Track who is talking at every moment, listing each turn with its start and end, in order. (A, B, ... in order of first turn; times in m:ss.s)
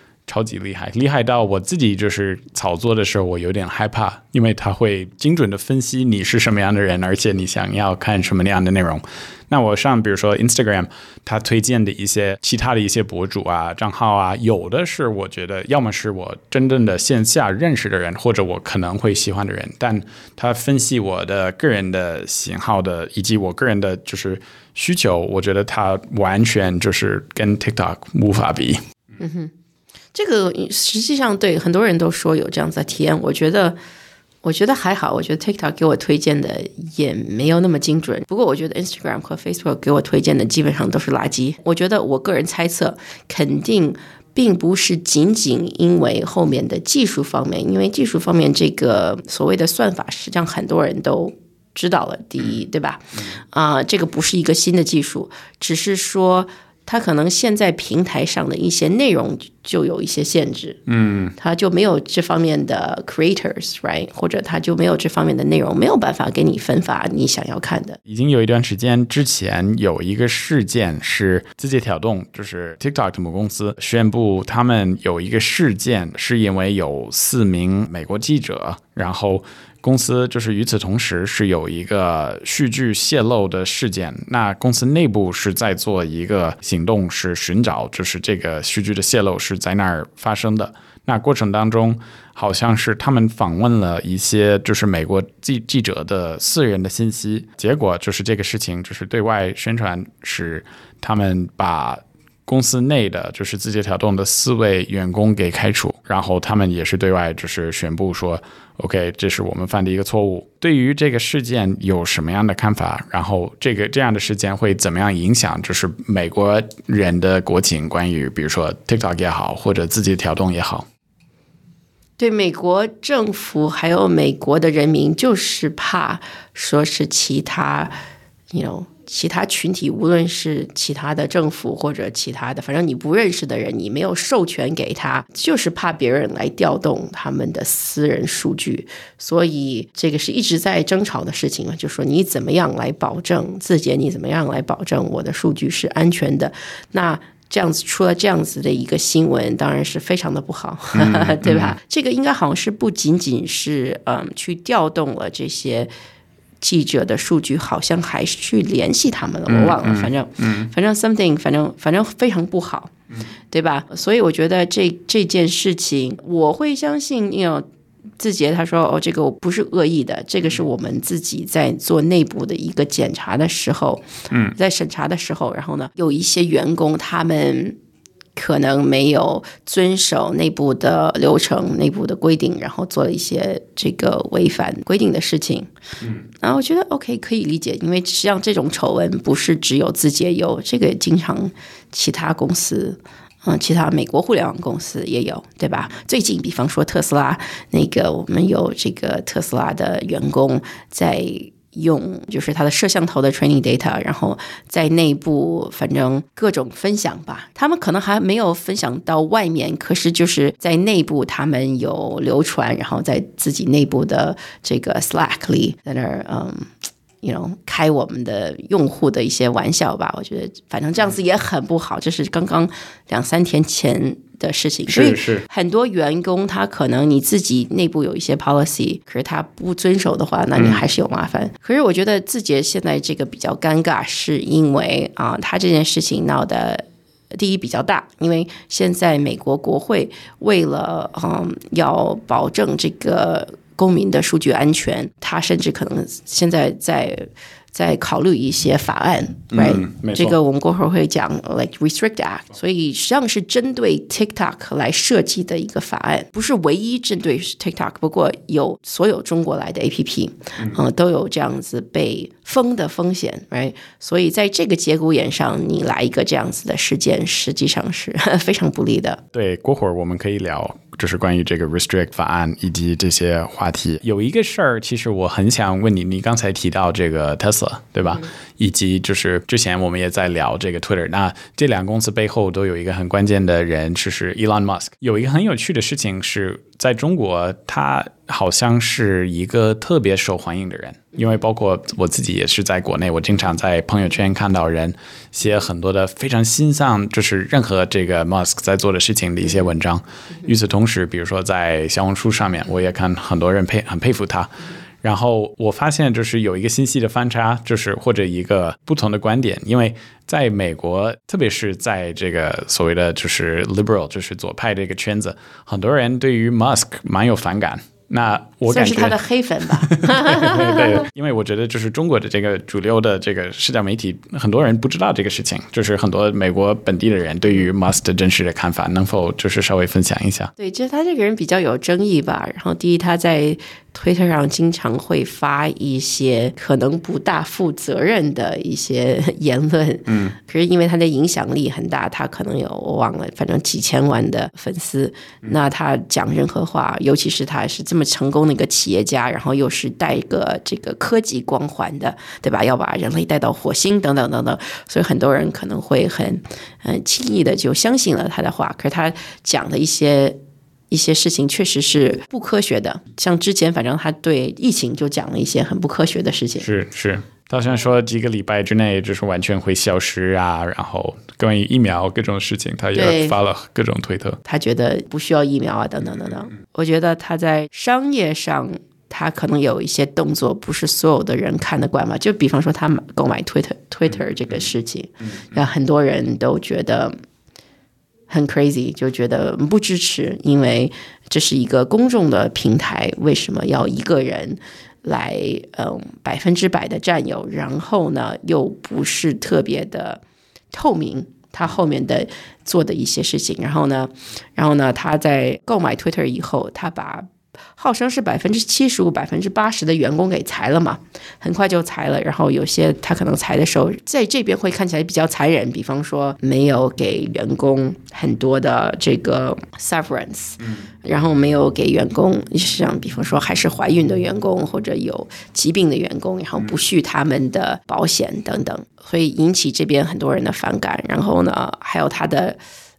0:00.3-0:28.8 A
0:29.2-0:29.5 B
0:30.1-0:33.8 B
0:34.4-1:00.8 B
1:00.9-1:01.3 A
1:01.4-1:08.0 B
1:08.1-2:00.9 A
2:02.2-2:07.9 B
2:08.5-2:35.9 B
2:30.9-2:31.7 A
2:36.6-2:42.9 B
2:39.5-2:40.7 A
2:43.5-2:47.6 B
2:48.2-2:54.0 B
2:54.6-2:57.8 B
2:58.4-3:05.7 B
3:06.4-3:36.7 B
3:37.2-4:29.2 B
3:44.9-3:45.4 A
3:50.6-3:50.8 A
4:09.5-4:10.4 A
4:29.3-5:19.2 A
5:18.7-5:21.0 B
5:19.8-5:30.5 A
5:30.6-6:00.4 B
5:40.1-5:40.3 A
6:00.9-6:06.7 B
6:06.6-6:14.4 A
6:13.0-6:13.4 B
6:14.4-6:27.2 B
6:28.3-6:40.2 B
6:40.7-6:47.3 B
6:47.8-7:12.6 B